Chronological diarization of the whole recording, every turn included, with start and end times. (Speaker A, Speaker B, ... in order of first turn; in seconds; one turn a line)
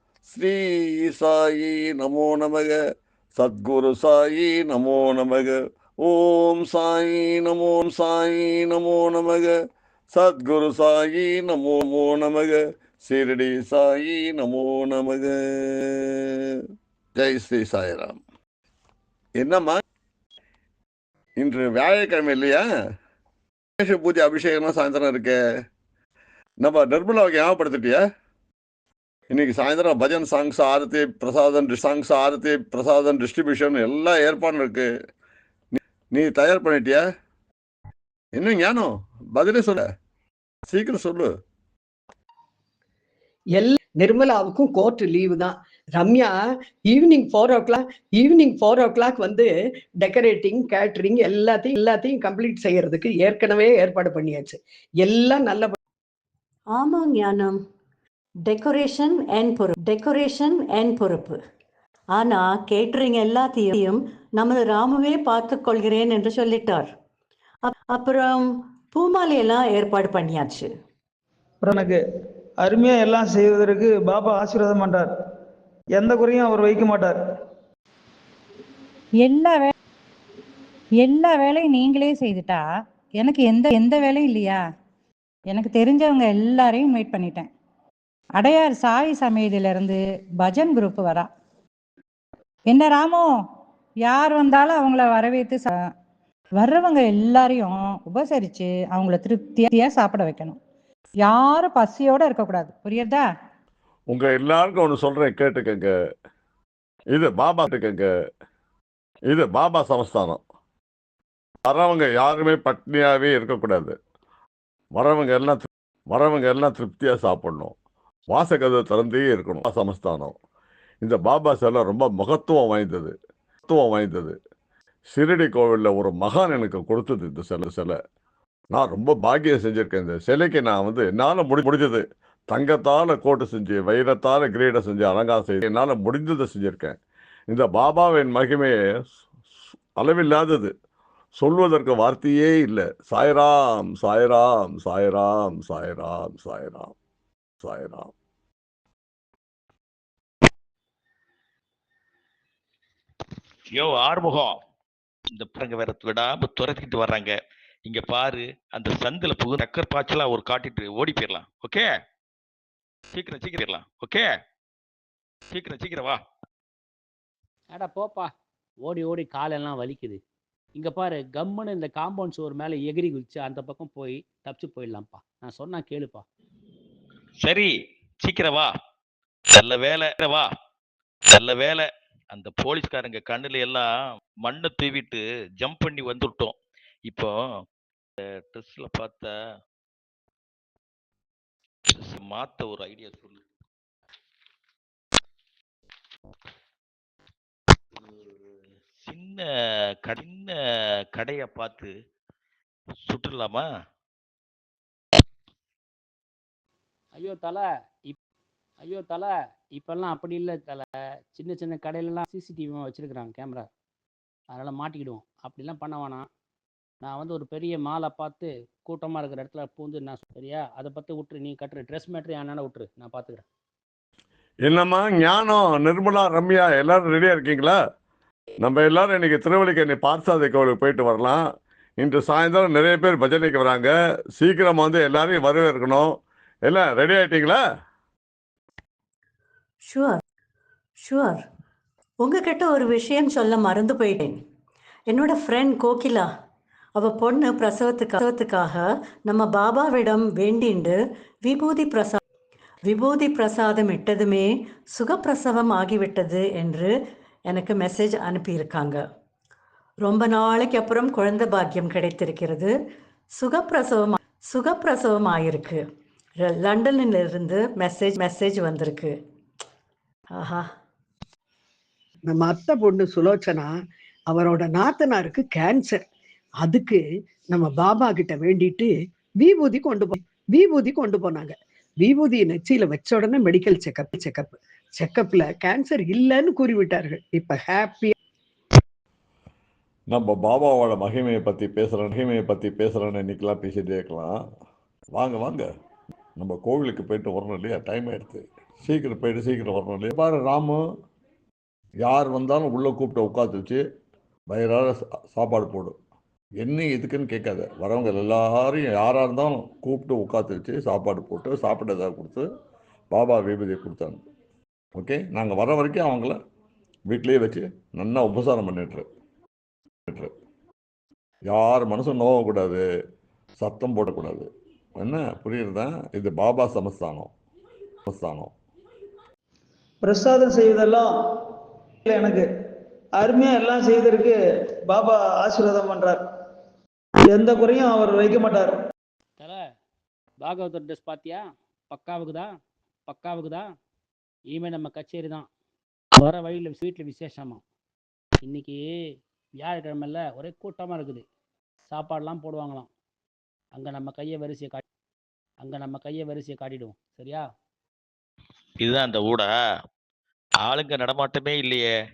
Speaker A: 0.3-2.8
Speaker A: 3.4-9.5
Speaker A: 10.1-16.6
Speaker A: 17.1-18.2
Speaker A: 19.4-19.8
Speaker A: 21.4-22.6
Speaker A: 23.8-25.4
Speaker A: 26.6-28.0
Speaker A: 29.3-34.9
Speaker A: 35.7-37.0
Speaker A: 38.4-39.8
Speaker A: 40.7-41.3
Speaker B: 43.5-46.4
Speaker B: 46.9-49.5
Speaker B: 50.0-55.8
Speaker C: 56.7-57.6
Speaker C: 58.5-61.4
Speaker C: 62.1-66.9
Speaker C: 67.6-70.7
Speaker D: 71.6-72.0
Speaker D: 72.6-75.1
Speaker D: 76.0-77.2
Speaker E: 79.2-79.7
Speaker E: 81.0-82.6
Speaker E: 83.2-84.6
Speaker E: 85.5-87.5
Speaker E: 88.4-91.3
Speaker E: 92.7-93.3
Speaker E: 94.0-95.8
Speaker E: 96.6-100.6
Speaker E: 101.2-103.2
Speaker A: 104.1-105.9
Speaker A: 107.1-108.1
Speaker A: 109.3-110.4
Speaker A: 111.7-114.0
Speaker A: 114.9-117.7
Speaker A: 118.3-120.3
Speaker A: 121.0-123.1
Speaker A: 123.6-124.3
Speaker A: 125.1-128.0
Speaker A: 128.7-138.8
Speaker A: 140.0-140.7
Speaker A: 141.3-146.9
Speaker A: 147.6-148.1
Speaker F: 153.7-154.5
Speaker F: 155.3-157.3
Speaker F: 157.8-161.8
Speaker F: 163.1-164.2
Speaker F: 165.5-166.2
Speaker G: 167.7-168.3
Speaker G: 168.8-170.2
Speaker G: 170.8-176.2
Speaker F: 177.4-178.7
Speaker F: 179.6-180.5
Speaker F: 181.3-183.9
Speaker F: 184.4-186.5
Speaker F: 188.5-189.3
Speaker F: 192.0-193.4
Speaker F: 199.0-199.4
Speaker F: 200.1-200.5
Speaker F: 201.2-201.9
Speaker F: 203.0-203.6
Speaker G: 207.1-208.2
Speaker G: 208.8-213.7
Speaker G: 214.5-216.3
Speaker G: 217.0-223.4
Speaker A: 224.6-227.8
Speaker A: 228.6-231.4
Speaker A: 232.0-237.6
Speaker C: 239.9-240.2
Speaker C: 241.0-241.4
Speaker C: 242.2-244.4
Speaker C: 245.1-246.3
Speaker C: 246.9-252.2
Speaker C: 252.8-256.9
Speaker C: 257.5-259.0
Speaker C: 260.0-262.7
Speaker C: 263.3-265.8
Speaker C: 266.4-269.1
Speaker C: 270.3-270.7
Speaker B: 272.3-273.7
Speaker B: 274.3-276.0
Speaker B: 276.6-288.1
Speaker A: 290.1-294.4
Speaker A: 295.1-295.7
Speaker A: 296.4-300.8
Speaker A: 302.0-303.8
Speaker A: 304.5-305.9
Speaker A: 306.6-312.5
Speaker A: 313.1-314.2
Speaker A: 314.9-316.4
Speaker A: 317.1-319.1
Speaker A: 321.5-322.8
Speaker A: 323.6-327.3
Speaker A: 328.1-328.5
Speaker D: 330.0-331.5
Speaker D: 332.1-332.5
Speaker D: 333.2-334.4
Speaker D: 334.9-336.2
Speaker D: 337.3-338.7
Speaker G: 340.4-342.5
Speaker G: 343.1-343.6
Speaker G: 344.5-345.5
Speaker G: 346.2-347.6
Speaker G: 348.4-348.8
Speaker G: 349.6-351.2
Speaker G: 351.9-352.9
Speaker G: 353.7-354.8
Speaker G: 355.6-357.4
Speaker F: 358.8-359.5
Speaker F: 360.6-361.9